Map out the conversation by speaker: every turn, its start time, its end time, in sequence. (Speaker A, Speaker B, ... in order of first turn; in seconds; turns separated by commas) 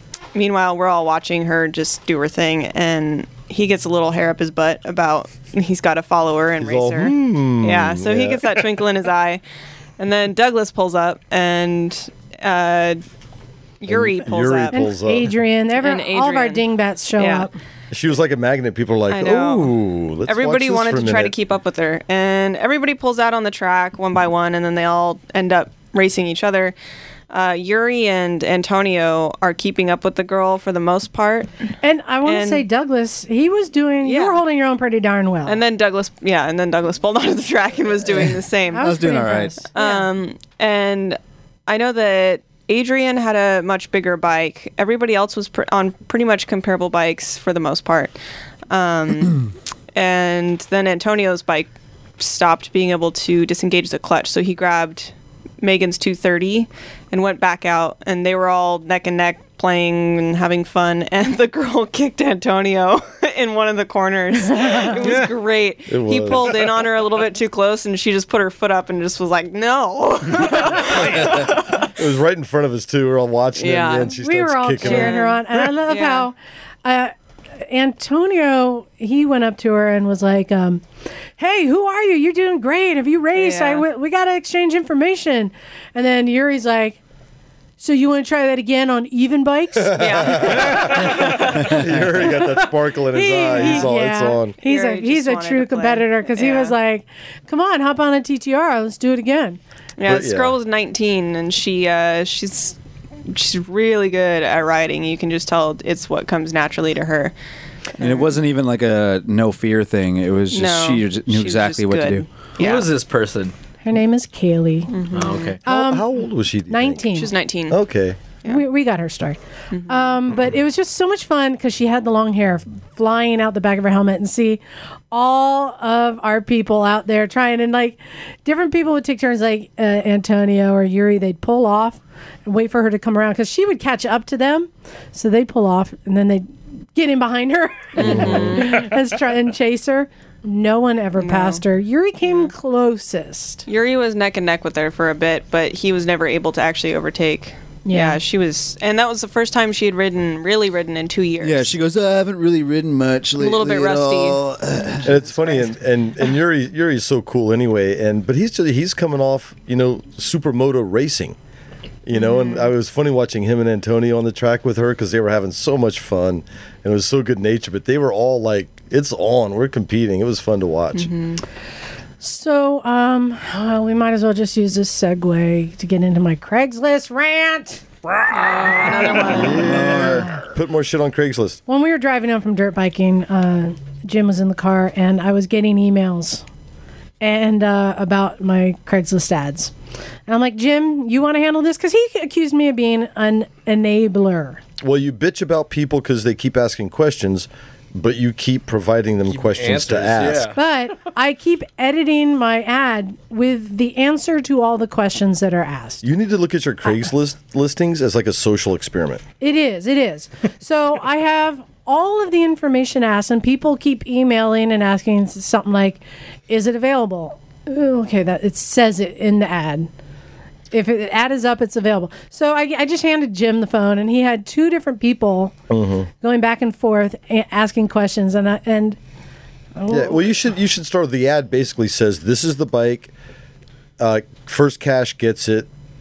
Speaker A: 0.3-9.4, Speaker B: 6.6-8.6, Speaker A: 10.0-13.0, Speaker A: 13.8-14.8, Speaker B: 13.9-15.3, Speaker C: 14.7-17.5, Speaker A: 15.8-16.6, Speaker A: 17.2-17.5, Speaker B: 17.9-21.3, Speaker A: 19.1-26.7, Speaker A: 27.3-31.5, Speaker C: 31.8-35.6, Speaker A: 32.2-32.6, Speaker A: 34.0-34.4, Speaker A: 35.5-38.9, Speaker C: 38.7-40.1, Speaker D: 38.8-39.6, Speaker A: 39.7-48.1, Speaker A: 48.7-71.9, Speaker C: 64.5-64.9, Speaker B: 65.9-66.7, Speaker B: 71.0-75.2, Speaker A: 73.5-74.1, Speaker C: 74.2-80.8, Speaker A: 74.8-76.3, Speaker C: 81.4-87.0, Speaker A: 83.3-83.8, Speaker C: 87.8-91.5, Speaker B: 89.9-94.5, Speaker A: 89.9-91.8, Speaker C: 92.2-99.6, Speaker A: 93.6-93.8, Speaker A: 94.6-96.7, Speaker A: 100.0-102.8, Speaker B: 100.0-100.5, Speaker A: 103.3-107.3, Speaker A: 108.0-108.3, Speaker D: 108.0-112.2, Speaker A: 110.5-112.9, Speaker E: 112.6-113.5, Speaker C: 113.8-115.0, Speaker A: 114.9-115.5, Speaker E: 115.1-115.6, Speaker C: 115.6-116.1, Speaker B: 115.6-117.0, Speaker C: 116.7-117.3, Speaker A: 117.1-117.8, Speaker B: 117.7-118.2, Speaker C: 118.4-124.6, Speaker A: 119.7-120.1, Speaker C: 125.1-143.6, Speaker A: 137.9-138.8, Speaker B: 138.0-138.6, Speaker A: 141.2-141.6, Speaker A: 143.7-151.7, Speaker C: 147.8-148.2, Speaker D: 151.4-155.2, Speaker A: 153.4-154.4, Speaker B: 155.0-161.3, Speaker B: 162.1-171.1, Speaker A: 162.1-162.7, Speaker A: 170.9-171.4, Speaker C: 172.2-177.8, Speaker A: 178.3-179.9, Speaker B: 179.3-181.6, Speaker D: 179.5-180.3, Speaker C: 181.7-186.4, Speaker C: 187.2-189.7, Speaker C: 190.3-194.6, Speaker B: 194.8-200.5, Speaker E: 199.3-200.6, Speaker C: 200.5-206.0, Speaker B: 206.0-209.2, Speaker C: 209.4-219.9, Speaker C: 220.7-225.6, Speaker B: 225.7-226.1, Speaker C: 226.2-229.0, Speaker C: 229.8-230.2, Speaker B: 229.9-233.1, Speaker B: 234.0-235.7